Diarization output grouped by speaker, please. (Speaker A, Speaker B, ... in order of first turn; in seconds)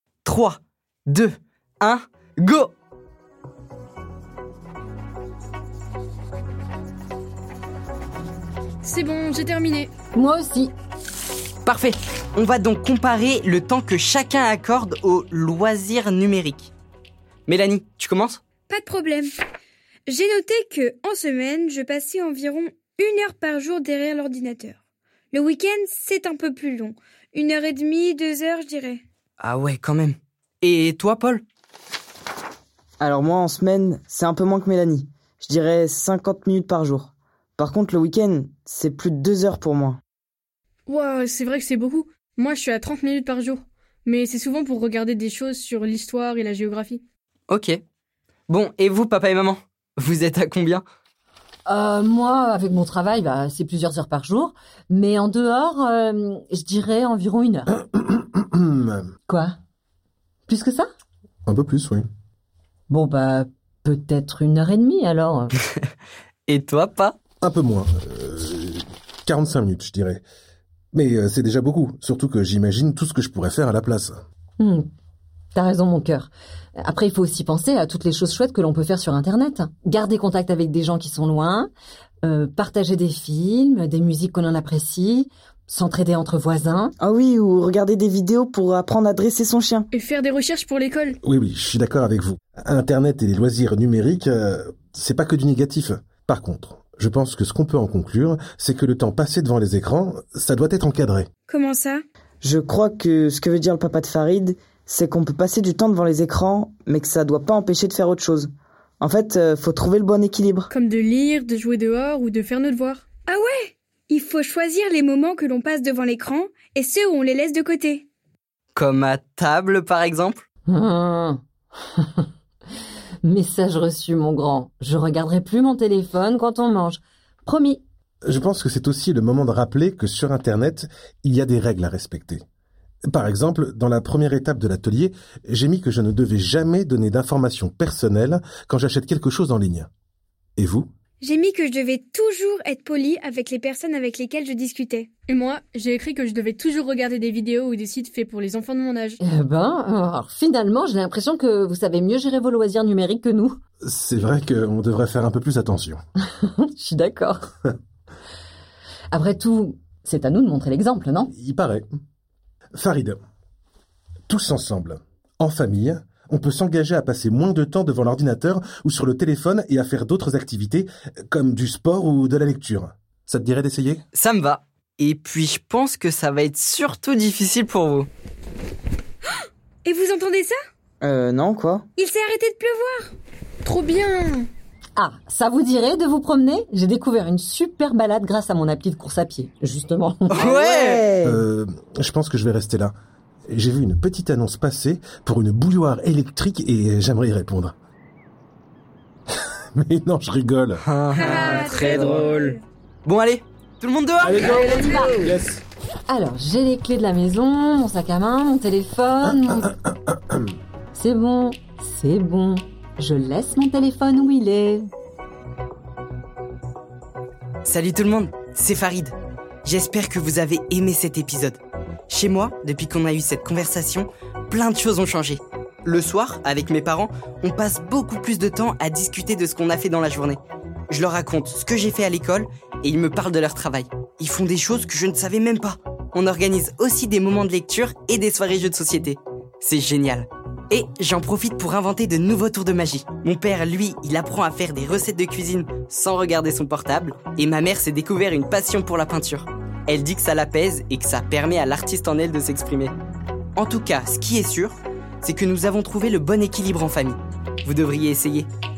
Speaker A: 0.2-2.7, 11.7-16.7, 17.5-18.4, 29.4-31.4, 47.5-47.8, 48.5-50.8, 66.5-67.2, 118.8-120.4, 174.1-178.1, 190.3-191.1, 200.8-202.3, 203.1-204.8, 217.7-252.9, 253.6-258.5
Speaker B: 8.8-9.9, 40.9-47.0, 89.9-91.2, 110.7-113.0, 145.3-149.2, 183.6-184.5
Speaker C: 10.2-10.7, 51.7-57.7, 59.3-59.5, 60.5-60.9, 62.9-65.5, 74.6-74.9, 75.5-76.3, 76.8-81.7, 82.2-86.9, 120.7-121.4, 122.0-122.2, 123.2-127.8, 149.2-153.6, 156.4-157.5, 159.1-161.3, 185.0-190.5, 204.5-205.3, 206.1-209.7, 210.9-214.9
Speaker D: 18.7-19.3, 20.1-24.8, 25.3-29.0, 101.5-102.0, 113.3-118.1, 141.2-145.1, 179.3-180.6, 182.0-183.1, 201.1-202.6
Speaker E: 33.0-40.0, 87.0-89.9, 102.4-108.5, 109.0-110.7, 181.0-181.8, 190.4-191.4, 204.3-205.3
Speaker F: 57.9-59.1, 61.5-62.1, 67.4-70.2, 70.9-74.2, 91.2-101.3, 128.3-132.4, 133.1-139.9, 140.6-140.9, 153.8-156.0, 161.3-161.9, 162.8-163.2, 164.3-174.0, 191.2-192.9, 193.5-197.8, 199.8-200.8